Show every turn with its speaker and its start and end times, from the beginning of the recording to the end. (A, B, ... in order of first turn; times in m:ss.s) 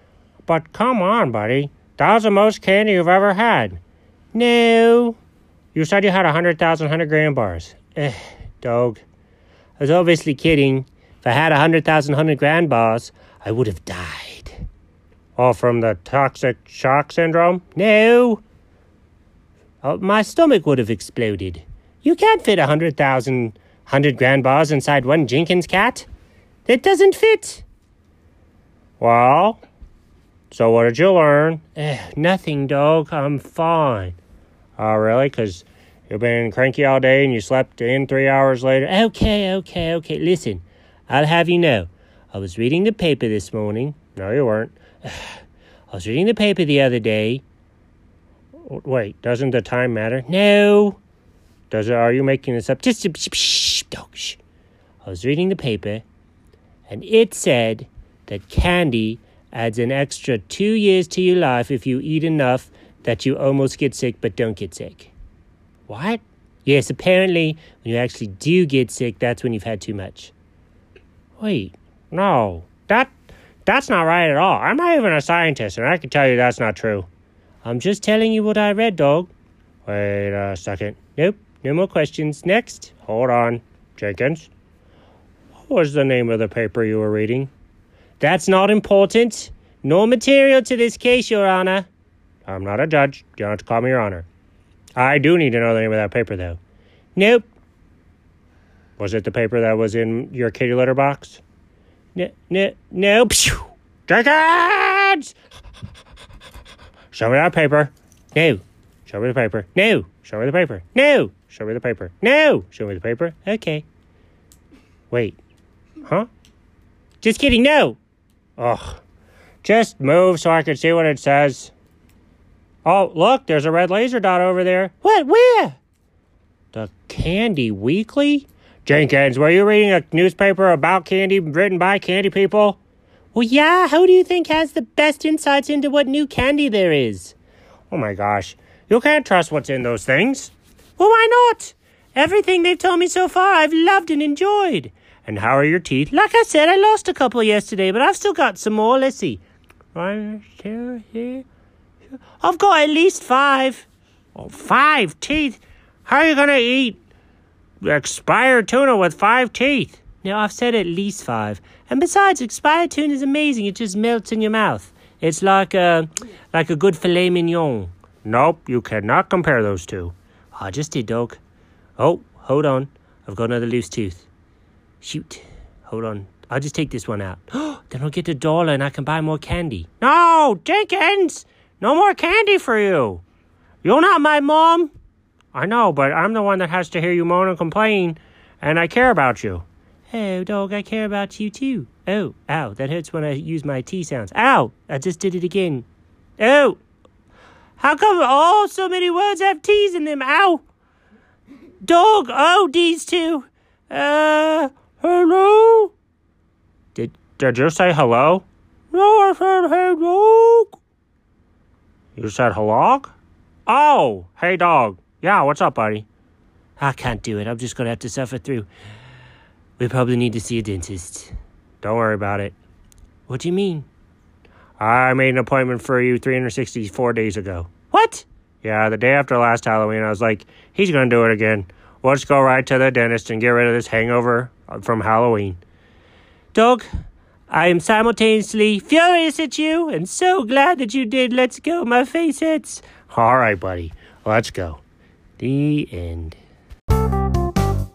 0:00.4-0:03.8 A
0:04.3-0:05.2 A
0:05.7-0:09.0 A
0:09.8-0:14.6 A
0:15.4-0:18.4 A
0:19.8-0:26.0 A
0:26.6-0:27.6 A
0:29.0-0:29.6 A
0:30.5-0:34.2 A
0:34.8-0:47.4 A
0:48.6-0:51.0 A
0:51.7-0:54.4 A
0:55.0-0:56.0 A
0:56.9-1:05.1 A
1:05.9-1:10.3 A
1:11.4-1:13.1 A
1:13.6-1:17.1 A
1:17.6-1:19.3 A
1:19.8-1:24.5 A
1:25.6-1:27.5 A
1:28.2-1:31.9 A
1:32.4-1:34.3 A
1:35.0-1:36.6 A
1:37.1-1:37.5 A
1:39.0-1:41.4 A
1:42.1-1:45.3 A
1:47.1-1:53.8 A
1:55.1-1:55.4 A
1:57.2-1:58.0 A
1:58.6-1:59.0 A
1:59.6-2:01.7 A
2:02.8-2:05.8 A
2:06.7-2:12.8 A
2:13.3-2:17.4 A
2:17.9-2:29.4 A
2:29.9-2:31.4 A
2:32.4-2:37.0 A
2:37.8-2:51.4 A
2:52.0-2:54.3 A
2:55.0-3:03.2 A
3:03.8-3:04.9 A
3:05.5-3:15.9 A
3:16.4-3:16.8 A
3:17.8-3:20.6 A
3:21.8-3:25.9 A
3:26.9-3:30.8 A
3:32.2-3:33.1 A
3:33.6-3:36.0 A
3:36.8-3:38.7 A
3:39.8-3:42.6 A
3:43.3-3:43.9 A
3:44.8-3:55.6 A
3:56.5-3:56.8 A
3:57.5-4:04.8 A
4:05.4-4:06.4 A